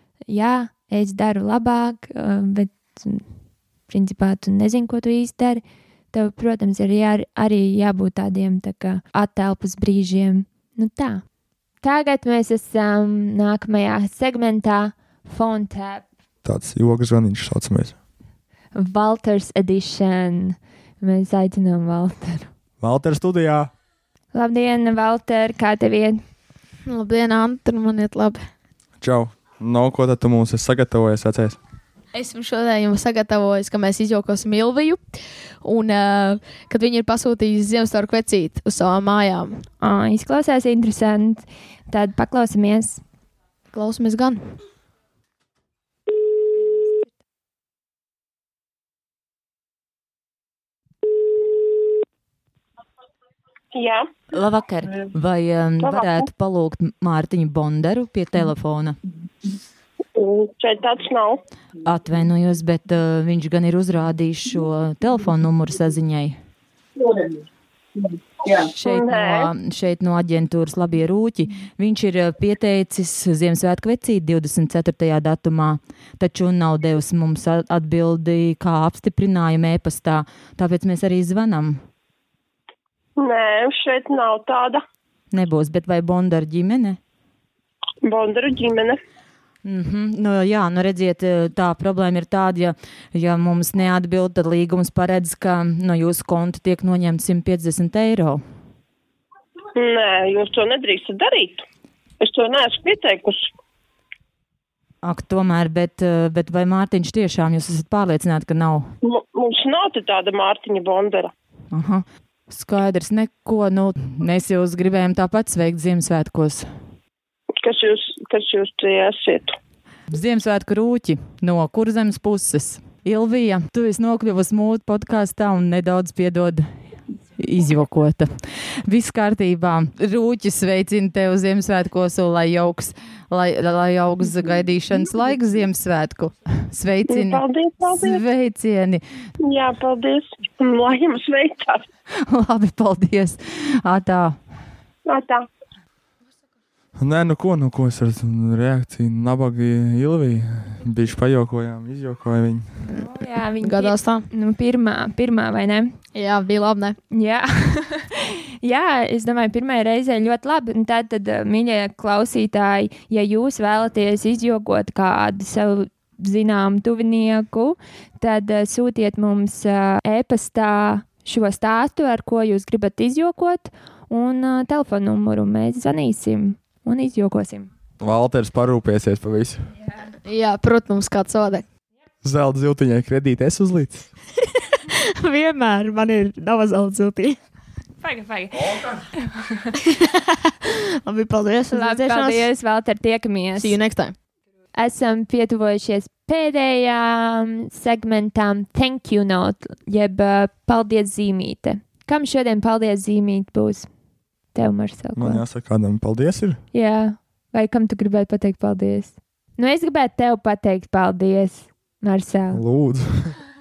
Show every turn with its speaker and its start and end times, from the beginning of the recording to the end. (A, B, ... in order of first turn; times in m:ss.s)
0:00.3-0:03.2 A
0:03.9-0:05.6 A
0:06.1-0:11.2 A
0:11.8-0:16.1 A
0:16.4-0:18.0 B
0:18.8-0:22.5 A
0:22.8-0:23.7 B
0:24.3-0:26.2 A
0:26.9-0:28.5 C
0:29.0-0:31.6 B
0:32.1-0:39.7 C
0:39.8-0:43.0 A
0:43.7-0:44.6 C
0:46.6-0:47.1 A
0:53.7-0:54.1 D
0:54.3-0:59.0 E
0:55.8-0:56.2 D
1:00.2-1:01.4 D
1:01.8-1:06.4 E
1:08.5-1:21.8 E
1:08.8-1:09.5 D
1:23.2-1:24.8 D
1:25.3-1:27.0 E
1:28.0-1:29.0 D
1:29.6-1:38.4 E
1:39.8-1:41.6 D
1:42.2-1:43.5 D
1:45.0-1:48.9 E
1:49.0-1:51.3 D
1:51.7-1:56.7 E
1:57.6-1:59.5 D
2:00.1-2:19.0 E
2:17.1-2:18.2 D
2:19.4-2:21.8 D
2:22.2-2:24.4 E
2:25.1-2:25.4 D
2:27.0-2:32.8 B
2:32.8-2:35.9 A
2:33.6-2:34.3 C
2:36.1-2:37.0 C
2:37.1-2:57.7 A
2:58.0-2:59.7 B
3:00.2-3:01.7 C
3:02.2-3:04.1 B
3:04.9-3:07.4 C
3:08.0-3:09.6 A
3:11.0-3:12.5 C
3:11.7-3:13.8 A
3:13.6-3:14.2 C
3:14.8-3:23.9 A
3:24.5-3:25.4 A
3:25.2-3:26.6 B
3:26.7-3:32.6 A
3:32.5-3:33.4 B